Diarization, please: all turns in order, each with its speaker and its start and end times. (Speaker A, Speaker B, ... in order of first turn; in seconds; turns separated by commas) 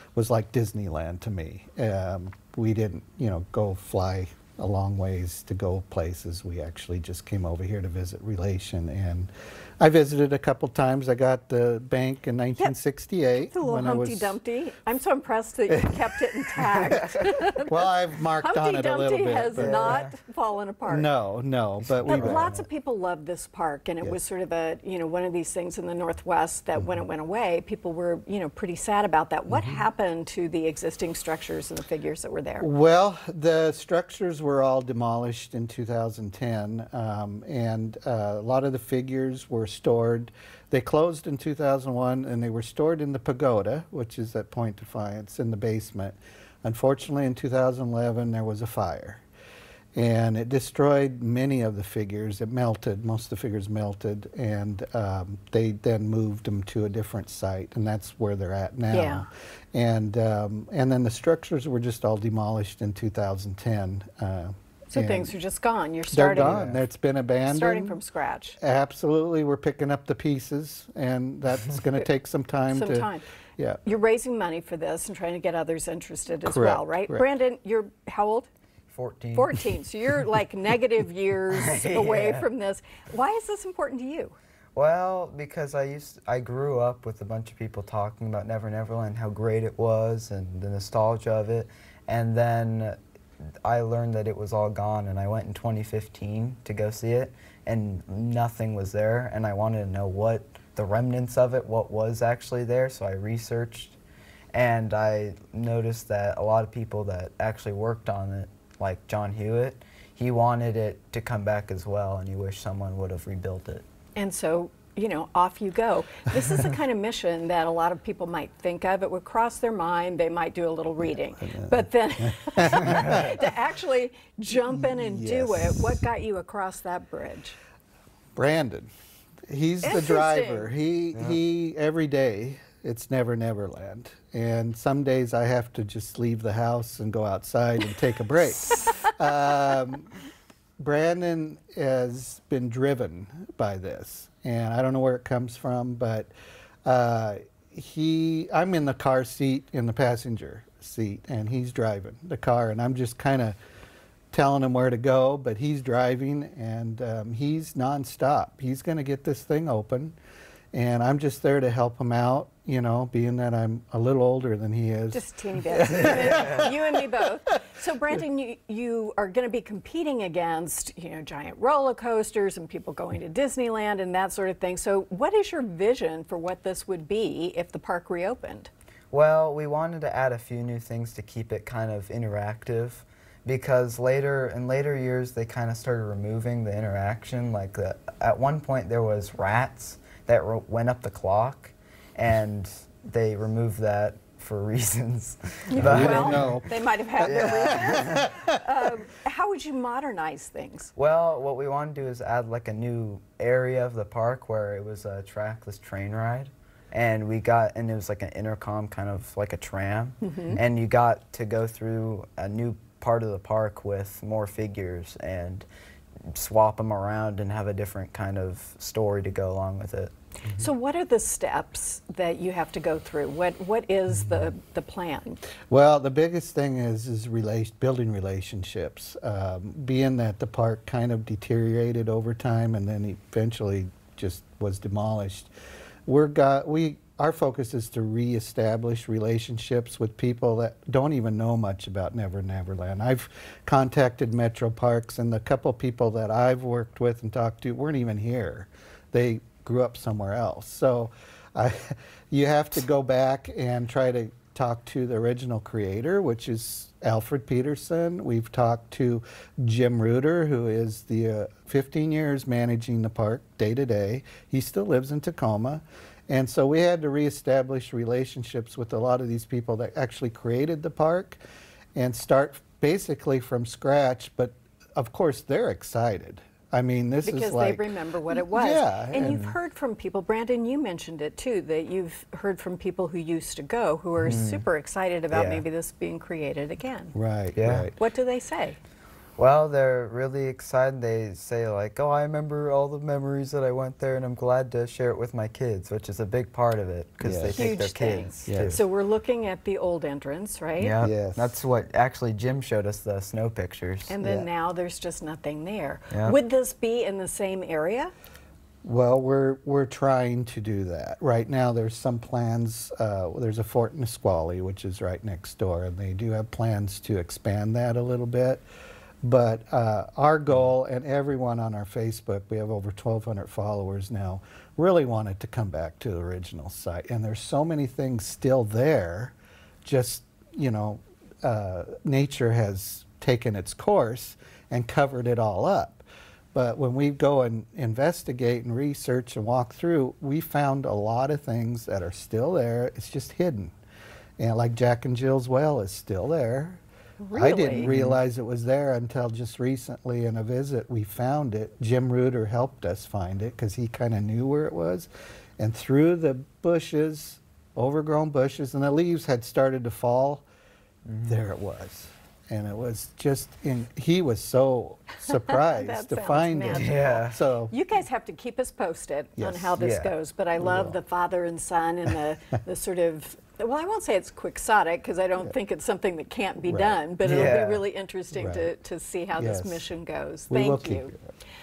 Speaker A: 0.1-14.4, Speaker B: 13.4-17.9, Speaker A: 15.7-16.9, Speaker A: 17.6-20.0, Speaker B: 18.4-21.1, Speaker C: 19.5-20.2, Speaker A: 20.9-22.6, Speaker C: 21.9-22.5, Speaker B: 22.1-32.7, Speaker A: 29.5-29.8, Speaker A: 32.6-49.2, Speaker A: 50.0-65.3, Speaker B: 58.9-59.3, Speaker B: 64.9-66.8, Speaker A: 66.1-68.0, Speaker C: 66.4-66.8, Speaker B: 67.5-68.6, Speaker A: 68.6-73.8, Speaker B: 72.7-73.2, Speaker B: 73.8-78.5, Speaker A: 76.5-77.2, Speaker C: 78.9-79.6, Speaker B: 79.3-84.3, Speaker C: 81.5-82.5, Speaker C: 84.8-93.0, Speaker C: 93.6-104.0, Speaker C: 104.5-113.8, Speaker B: 114.2-127.6, Speaker A: 121.4-123.4, Speaker A: 124.6-126.0, Speaker A: 128.4-128.9, Speaker A: 129.5-140.1, Speaker B: 129.8-130.7, Speaker A: 140.8-146.3, Speaker A: 146.8-153.6, Speaker A: 154.3-160.2, Speaker A: 160.7-165.2, Speaker B: 165.1-178.7, Speaker A: 165.7-166.7, Speaker C: 166.0-166.4, Speaker C: 179.1-196.6, Speaker B: 195.7-200.9, Speaker A: 195.8-196.7, Speaker C: 197.2-198.3, Speaker A: 197.3-198.4, Speaker C: 200.9-215.7, Speaker B: 210.2-210.6, Speaker C: 216.3-220.1, Speaker B: 220.5-225.4, Speaker A: 225.7-235.5, Speaker A: 236.1-271.4, Speaker A: 271.9-279.4, Speaker B: 277.2-287.1, Speaker C: 279.2-279.6, Speaker C: 284.3-284.6, Speaker C: 285.3-285.6, Speaker A: 287.1-288.0, Speaker C: 287.6-287.9, Speaker B: 288.0-288.8, Speaker C: 289.4-298.8, Speaker A: 297.2-297.8, Speaker B: 297.5-301.0, Speaker A: 298.5-298.8, Speaker C: 300.8-304.2, Speaker A: 301.0-301.6, Speaker B: 304.1-308.1, Speaker A: 304.2-304.5, Speaker C: 306.1-306.4, Speaker A: 308.8-318.6, Speaker A: 319.2-343.7, Speaker A: 344.4-346.8, Speaker B: 347.2-347.9, Speaker A: 347.3-355.1, Speaker C: 347.8-348.2, Speaker A: 355.6-360.4, Speaker C: 361.1-361.4, Speaker A: 361.3-367.7, Speaker B: 365.5-381.1, Speaker C: 366.7-367.4, Speaker A: 369.4-369.8, Speaker C: 369.8-370.1, Speaker A: 370.6-371.0, Speaker A: 376.7-377.6, Speaker C: 377.2-377.9, Speaker A: 378.3-378.7, Speaker A: 379.4-379.9, Speaker A: 380.5-381.3